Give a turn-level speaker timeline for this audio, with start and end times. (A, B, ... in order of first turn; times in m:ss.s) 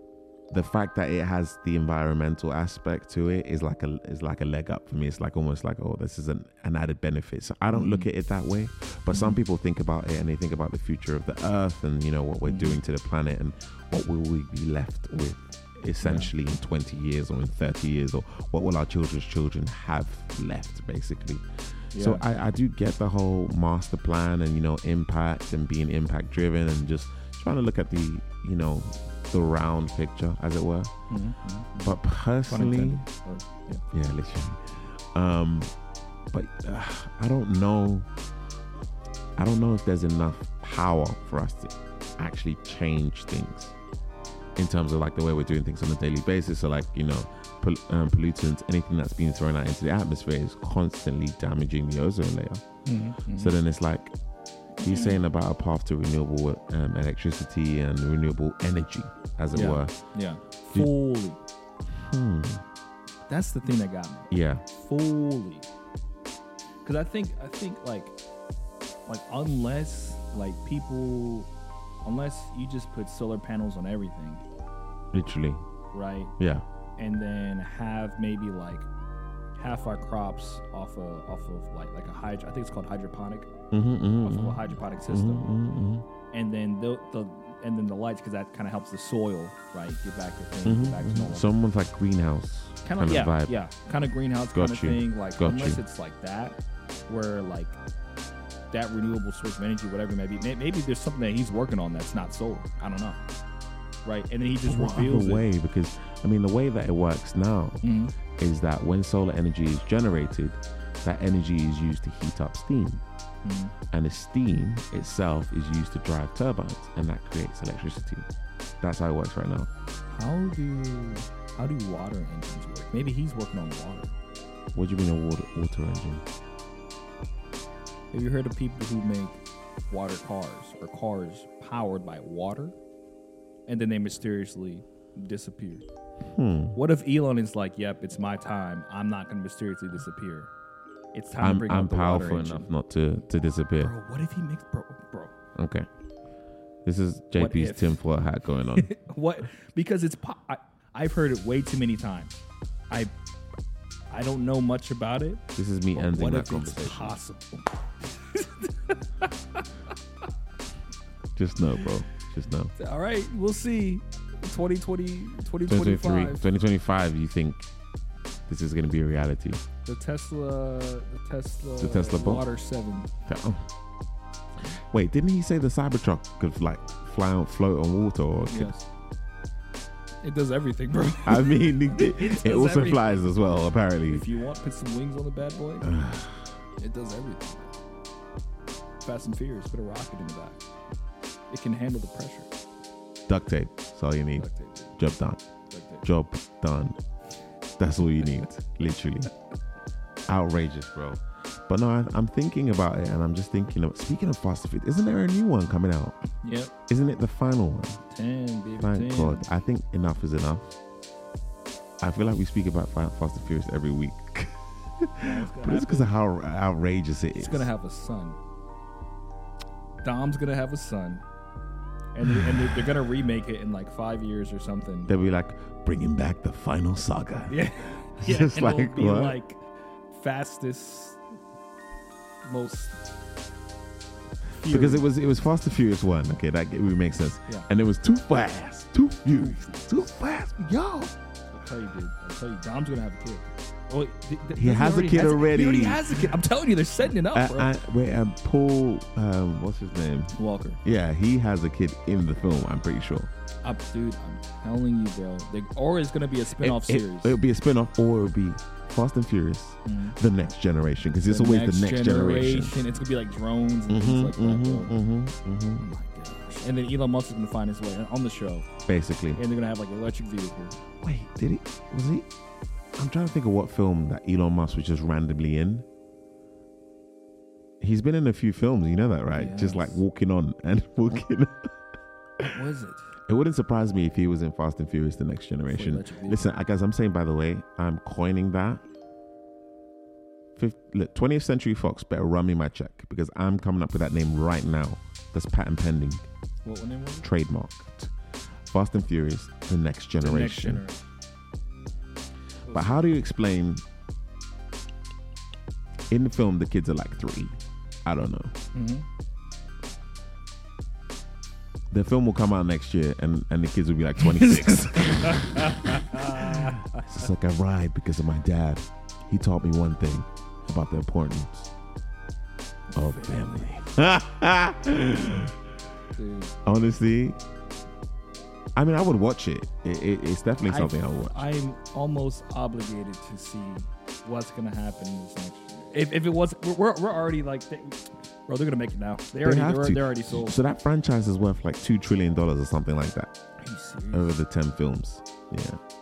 0:00.5-0:30.9 A
0:07.7-0:08.1 B
0:09.1-0:09.4 B
0:12.4-0:12.8 B
0:16.0-0:16.3 B
0:21.9-0:22.2 B
0:31.1-0:33.8 B
0:31.8-0:33.0 A
0:33.9-0:35.7 A
0:36.3-0:38.1 A
0:39.4-0:43.7 A
0:44.6-0:52.6 A
0:52.8-0:53.6 B
0:53.2-0:54.1 A
0:54.8-0:55.2 B
0:54.8-0:59.9 A
0:59.5-1:01.4 B
1:01.9-1:02.6 A
1:03.3-1:05.7 B
1:04.3-1:04.6 A
1:06.8-1:08.2 B
1:09.1-1:11.5 B
1:12.0-1:14.4 B
1:15.1-1:15.6 A
1:15.9-1:16.3 B
1:16.4-1:16.6 A
1:17.0-1:18.9 B
1:19.6-1:23.5 B
1:23.7-1:26.1 A
1:24.2-1:25.5 B
1:26.3-1:31.5 B
1:30.6-1:33.6 A
1:32.8-1:37.8 B
1:34.5-1:35.8 A
1:38.7-1:43.2 B
1:44.0-1:45.5 B
1:44.6-1:47.8 A
1:47.8-1:48.2 B
1:48.4-1:53.0 A
1:53.4-1:53.8 B
1:53.9-1:58.3 A
1:58.8-1:59.7 A
2:00.1-2:04.2 B
2:04.7-2:06.2 A
2:08.1-2:12.8 B
2:13.7-2:15.8 B
2:16.2-2:16.8 A
2:16.8-2:20.5 B
2:21.1-2:22.7 B
2:21.4-2:23.9 A
2:23.8-2:25.4 B
2:25.6-2:25.9 A
2:26.8-2:28.9 A
2:27.4-2:28.0 B
2:28.7-2:32.4 B
2:34.1-2:39.7 B
2:35.6-2:37.1 A
2:41.4-2:42.7 A
2:42.8-2:46.5 B
2:45.7-2:47.7 A
2:48.5-2:49.6 A
2:49.8-2:53.1 B
2:51.8-2:52.5 A
2:53.2-2:53.6 A
2:54.6-2:58.7 A
2:58.5-2:58.8 B
3:00.2-3:03.2 B
3:01.2-3:04.2 A
3:04.1-3:05.9 B
3:05.8-3:06.5 A
3:06.8-3:07.8 B
3:09.0-3:10.6 B
3:11.5-3:12.5 B
3:13.3-3:15.4 A
3:14.4-3:14.9 B
3:15.7-3:16.0 B
3:16.0-3:17.0 A
3:17.8-3:19.3 A
3:20.3-3:26.2 A
3:26.4-3:26.7 B
3:26.9-3:28.0 A
3:28.1-3:29.5 B
3:28.8-3:30.7 A
3:32.0-3:37.7 A
3:35.2-3:36.1 B
3:37.4-3:38.4 B
3:40.0-3:41.2 B
3:42.1-3:45.1 B
3:45.1-3:49.4 A
3:47.5-3:51.2 B
3:52.4-3:53.0 B
3:54.5-3:55.1 B
3:54.6-4:01.1 A
3:59.3-4:00.0 B
4:01.5-4:07.7 B
4:04.6-4:06.4 A
4:07.3-4:13.3 A
4:10.3-4:10.8 B
4:13.6-4:17.4 B
4:16.6-4:22.8 A
4:19.8-4:20.2 B
4:21.2-4:24.9 B
4:23.9-4:25.8 A
4:25.8-4:28.7 B
4:28.8-4:29.4 A
4:29.4-4:30.8 B
4:31.0-4:32.3 A
4:33.0-4:35.8 A
4:37.8-4:41.8 A
4:39.3-4:40.0 B
4:42.4-4:43.2 B
4:43.3-4:48.8 A
4:45.7-4:46.5 B
4:50.6-4:56.3 A
4:56.6-4:57.3 B
4:57.2-4:58.1 A
4:58.7-5:00.8 A
5:00.2-5:01.1 B
5:02.6-5:03.1 B
5:02.7-5:03.8 A
5:06.1-5:08.6 A
5:08.7-5:09.1 B
5:11.9-5:21.7 A
5:14.2-5:17.1 B
5:22.9-5:23.8 B
5:22.9-5:25.6 A
5:26.2-5:26.5 B
5:26.6-5:27.4 A
5:28.8-5:31.4 A
5:30.6-5:40.6 B
5:39.4-5:43.3 A
5:43.6-5:44.4 B
5:44.1-5:45.8 A